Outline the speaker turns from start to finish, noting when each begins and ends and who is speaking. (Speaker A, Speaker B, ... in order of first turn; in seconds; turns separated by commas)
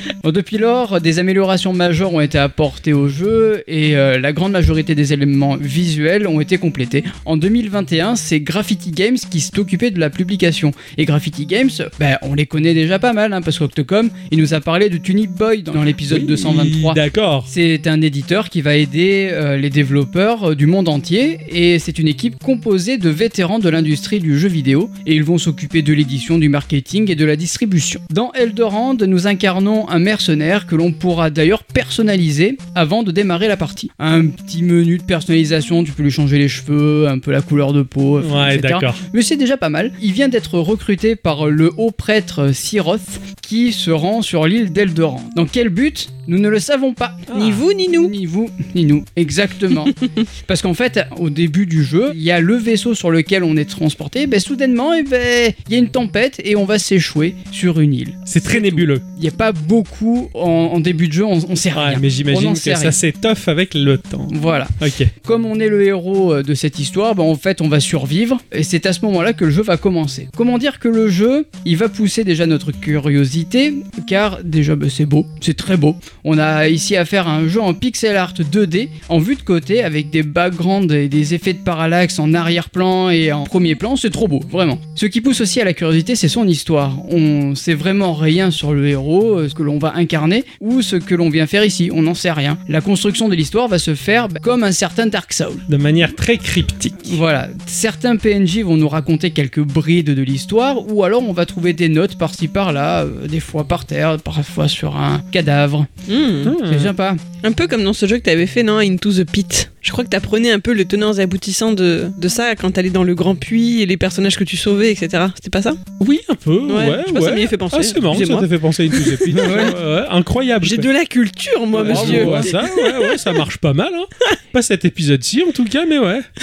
Speaker A: 0.2-63.0, Speaker B: 16.0-17.5, Speaker B: 38.2-39.0, Speaker C: 47.3-48.1, Speaker B: 47.3-47.6, Speaker B: 58.3-59.0, Speaker B: 61.7-65.1, Speaker A: 64.3-95.6, Speaker B: 95.7-97.2, Speaker A: 97.1-105.9, Speaker C: 106.1-106.6, Speaker B: 106.4-106.9, Speaker A: 106.6-107.2, Speaker C: 107.4-115.8, Speaker B: 116.0-120.9, Speaker C: 116.7-119.7, Speaker A: 119.3-119.7, Speaker C: 120.6-123.4, Speaker A: 121.8-122.5, Speaker B: 121.8-126.3